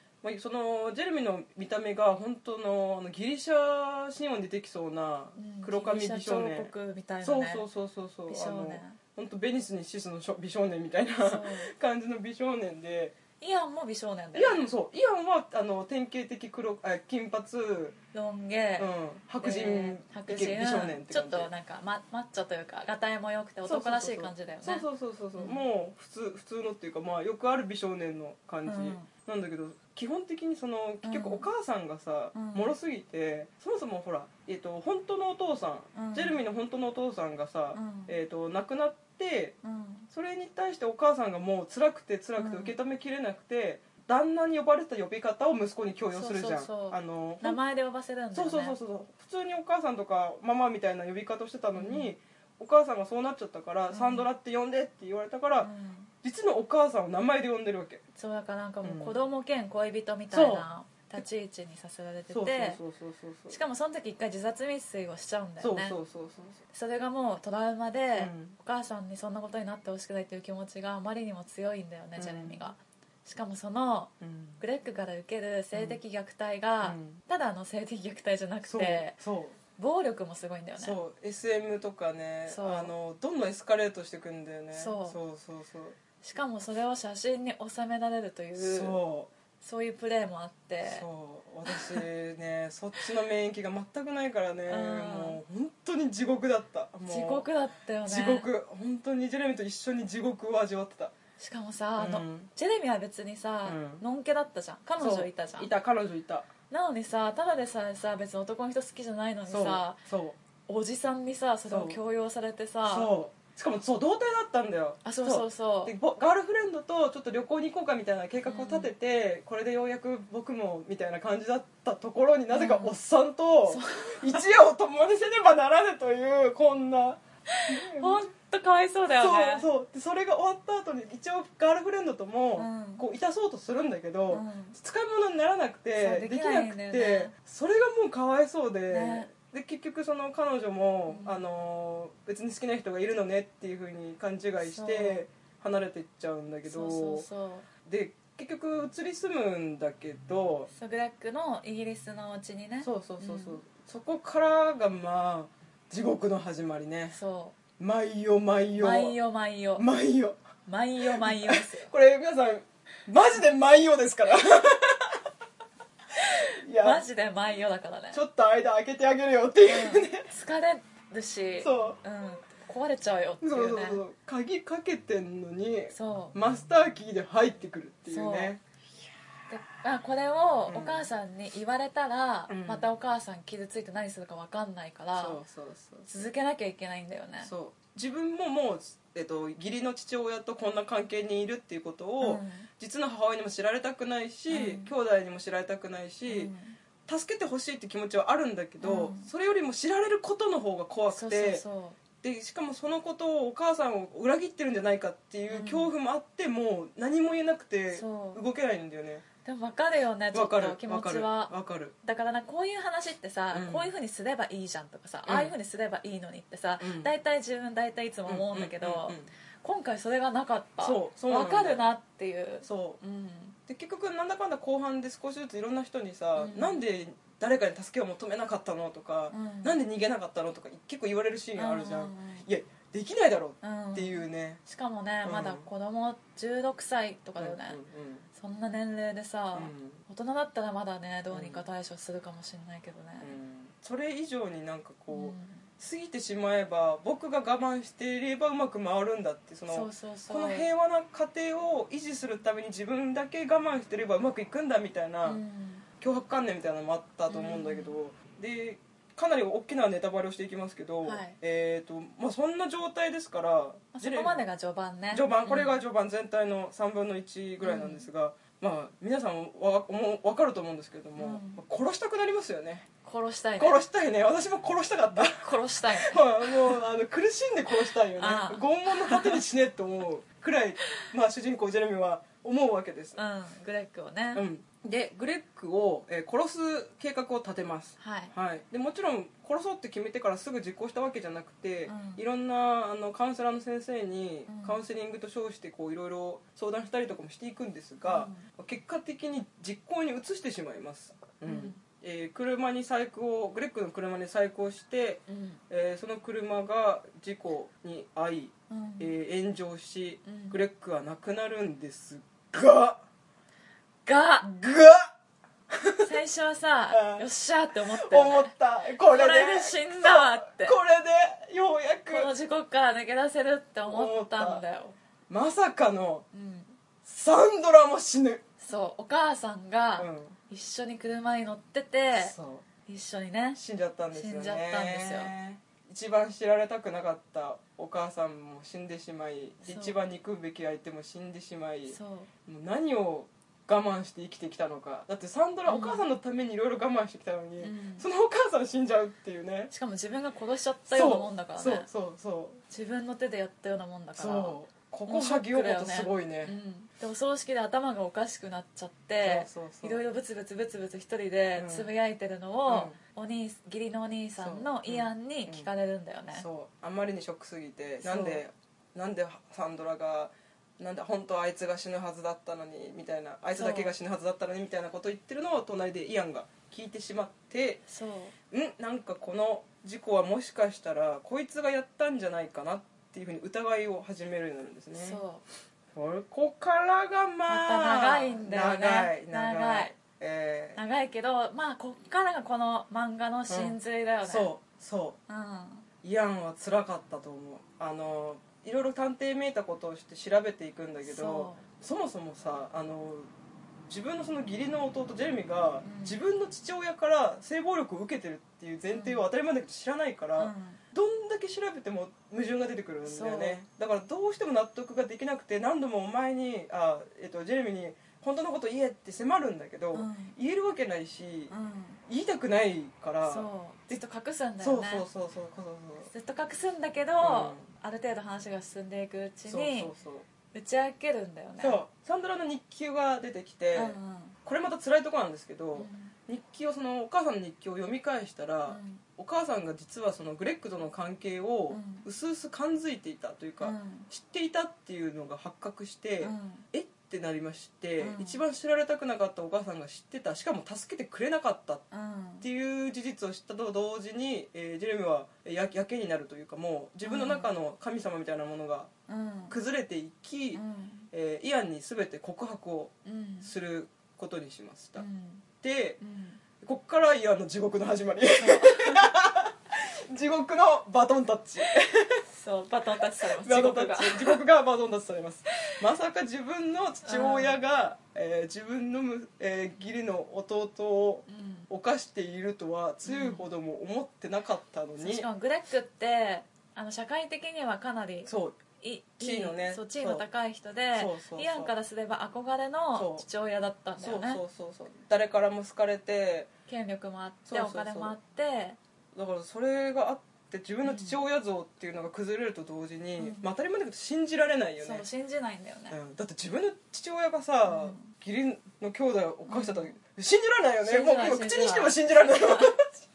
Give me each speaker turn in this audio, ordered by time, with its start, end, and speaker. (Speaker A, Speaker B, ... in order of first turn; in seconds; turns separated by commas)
Speaker A: 0.2-6.7, Speaker B: 5.4-7.7, Speaker A: 7.2-13.2, Speaker B: 8.3-9.0, Speaker B: 11.2-11.7, Speaker B: 13.4-14.7, Speaker A: 14.3-18.0, Speaker B: 18.1-18.9, Speaker A: 18.8-21.5, Speaker B: 19.4-25.6, Speaker A: 23.6-39.6, Speaker B: 28.7-29.1, Speaker B: 31.0-31.5, Speaker B: 32.4-32.8, Speaker B: 35.9-36.4, Speaker B: 37.8-38.1, Speaker B: 39.6-40.1, Speaker A: 40.1-47.6, Speaker B: 42.4-42.8, Speaker B: 46.1-48.8, Speaker A: 48.3-55.7, Speaker B: 51.8-52.1, Speaker B: 53.9-54.3, Speaker B: 55.6-56.1, Speaker A: 56.2-58.0, Speaker B: 58.1-62.8, Speaker A: 58.8-59.2, Speaker A: 60.3-60.7, Speaker A: 62.3-63.6, Speaker B: 63.5-66.0, Speaker A: 65.6-66.6, Speaker B: 66.7-79.2, Speaker A: 68.2-68.6, Speaker A: 72.2-72.7, Speaker A: 74.2-74.6, Speaker A: 75.7-76.0, Speaker A: 76.8-77.2, Speaker A: 78.6-79.6, Speaker B: 79.8-81.0, Speaker A: 80.8-86.0, Speaker B: 82.5-82.9, Speaker B: 84.7-85.2, Speaker B: 86.2-89.0, Speaker A: 88.6-89.3, Speaker B: 89.6-91.1, Speaker A: 90.8-97.5, Speaker B: 91.7-92.0, Speaker B: 94.7-95.4, Speaker B: 97.1-98.5, Speaker A: 98.1-101.1, Speaker B: 101.4-105.7, Speaker A: 102.0-102.5, Speaker A: 103.7-104.0, Speaker A: 105.0-106.5, Speaker B: 106.7-110.0, Speaker A: 109.5-110.4, Speaker B: 110.7-113.1, Speaker A: 111.7-112.0, Speaker A: 112.9-128.3, Speaker B: 115.0-115.9, Speaker B: 118.5-118.9, Speaker B: 122.5-123.0, Speaker B: 123.7-124.5, Speaker B: 127.5-129.7, Speaker A: 129.2-147.3, Speaker B: 132.6-133.0, Speaker B: 134.3-134.8, Speaker B: 136.0-137.3, Speaker B: 138.9-139.3, Speaker B: 141.1-141.4, Speaker B: 144.6-145.2, Speaker B: 146.7-147.7, Speaker A: 147.8-150.7, Speaker B: 150.7-153.6, Speaker A: 152.8-157.2, Speaker B: 157.1-157.6, Speaker A: 157.8-159.2, Speaker B: 158.8-159.9, Speaker A: 159.8-160.4, Speaker B: 160.7-161.9, Speaker A: 161.0-165.2, Speaker A: 166.4-167.0, Speaker B: 166.4-168.2, Speaker A: 168.1-170.3, Speaker B: 169.7-174.0, Speaker A: 171.6-172.0, Speaker A: 173.4-178.6, Speaker B: 175.9-176.3, Speaker B: 178.1-178.5, Speaker B: 179.5-185.4, Speaker A: 180.7-181.1, Speaker A: 182.5-182.9, Speaker A: 185.2-186.3, Speaker B: 186.1-187.5, Speaker A: 187.4-196.5, Speaker B: 192.2-192.7, Speaker B: 194.5-194.9, Speaker B: 196.3-196.8, Speaker A: 197.1-201.6, Speaker B: 198.8-199.3, Speaker B: 201.1-202.0, Speaker A: 202.2-209.2, Speaker B: 205.5-205.9, Speaker B: 207.9-208.4, Speaker B: 209.4-223.6, Speaker A: 210.3-211.9, Speaker A: 213.5-213.9, Speaker A: 215.3-215.5, Speaker A: 216.8-217.1, Speaker A: 218.3-219.3, Speaker A: 220.8-221.8, Speaker A: 222.6-223.0, Speaker A: 223.7-234.6, Speaker B: 226.4-226.8, Speaker B: 229.3-229.8, Speaker B: 231.6-232.5, Speaker B: 233.6-237.8, Speaker A: 235.2-235.7, Speaker A: 237.4-238.2, Speaker B: 238.3-243.4, Speaker A: 239.5-240.0, Speaker A: 241.3-241.7, Speaker A: 243.2-255.4, Speaker B: 245.1-245.6, Speaker B: 249.7-250.7, Speaker B: 255.2-255.9, Speaker A: 256.0-264.4, Speaker B: 257.3-258.0, Speaker B: 261.0-261.4, Speaker B: 263.9-265.8, Speaker A: 265.1-272.9, Speaker B: 267.6-268.1, Speaker B: 271.2-271.6, Speaker B: 273.0-273.8, Speaker A: 273.6-283.2, Speaker B: 275.1-276.8, Speaker B: 277.8-279.4, Speaker B: 283.2-284.4, Speaker A: 284.3-313.0, Speaker B: 288.0-288.3, Speaker B: 291.9-292.2, Speaker B: 294.5-294.8, Speaker B: 298.1-298.4, Speaker B: 301.5-301.8, Speaker B: 305.3-305.6, Speaker B: 308.7-309.1, Speaker B: 310.2-310.6, Speaker B: 314.1-314.5, Speaker A: 314.4-315.1, Speaker A: 315.7-316.1, Speaker B: 316.0-318.5, Speaker A: 316.9-317.3, Speaker A: 317.9-322.3, Speaker B: 319.0-320.8, Speaker B: 322.1-325.0, Speaker A: 323.9-324.6, Speaker A: 325.3-326.3, Speaker B: 326.3-326.8, Speaker A: 327.0-328.4, Speaker B: 328.6-332.3, Speaker A: 330.0-330.4, Speaker A: 332.1-332.6, Speaker B: 332.9-333.6, Speaker A: 333.6-349.7, Speaker B: 334.1-335.3, Speaker B: 339.6-340.0, Speaker B: 341.9-342.3, Speaker B: 345.7-346.1, Speaker B: 347.6-348.1, Speaker B: 349.7-351.9, Speaker A: 350.9-352.6, Speaker B: 352.7-366.5, Speaker A: 354.2-356.6, Speaker A: 359.2-360.0, Speaker A: 361.6-361.9, Speaker A: 362.7-363.0, Speaker A: 364.4-365.7, Speaker A: 366.3-377.8, Speaker B: 368.0-368.4, Speaker B: 373.5-373.9, Speaker B: 377.9-378.3, Speaker A: 378.5-385.2, Speaker B: 384.9-385.4, Speaker A: 385.9-390.8, Speaker B: 387.5-389.9, Speaker B: 390.8-394.5, Speaker A: 393.5-395.2, Speaker B: 395.3-395.9, Speaker A: 396.0-403.3, Speaker B: 401.0-401.6, Speaker A: 403.9-421.5, Speaker B: 405.8-406.2, Speaker B: 408.9-409.2, Speaker B: 410.4-410.8, Speaker B: 413.1-413.6, Speaker B: 419.9-420.4, Speaker B: 421.5-422.0, Speaker A: 422.1-424.0, Speaker B: 423.2-425.1, Speaker A: 424.6-426.1, Speaker B: 426.1-429.9, Speaker A: 427.2-427.7, Speaker A: 429.5-430.2, Speaker B: 430.5-431.8, Speaker A: 431.6-451.8, Speaker B: 433.7-434.4, Speaker B: 435.8-436.1, Speaker B: 438.7-439.0, Speaker B: 441.7-442.1, Speaker B: 443.6-444.1, Speaker B: 446.2-446.6, Speaker B: 448.0-448.4, Speaker B: 451.9-452.5, Speaker A: 452.4-458.9, Speaker B: 457.1-457.5, Speaker B: 459.1-459.6, Speaker A: 459.5-465.0, Speaker B: 460.5-461.1, Speaker B: 463.1-463.5, Speaker B: 465.0-465.4, Speaker A: 465.6-466.0, Speaker B: 466.0-466.4, Speaker A: 466.6-472.2, Speaker B: 468.4-469.1, Speaker B: 472.3-474.4, Speaker A: 473.2-485.3, Speaker B: 477.1-477.6, Speaker B: 481.3-481.7, Speaker B: 483.1-483.5, Speaker B: 485.0-494.4, Speaker A: 488.2-488.6, Speaker A: 489.2-490.2, Speaker A: 490.9-491.7, Speaker A: 492.9-493.2, Speaker A: 494.0-496.5, Speaker B: 496.7-498.8, Speaker A: 497.5-498.2, Speaker A: 499.1-505.0, Speaker B: 500.8-501.2, Speaker B: 503.2-503.5, Speaker B: 504.8-506.0, Speaker A: 505.9-512.9, Speaker B: 507.7-508.1, Speaker B: 509.5-509.9, Speaker B: 510.8-512.8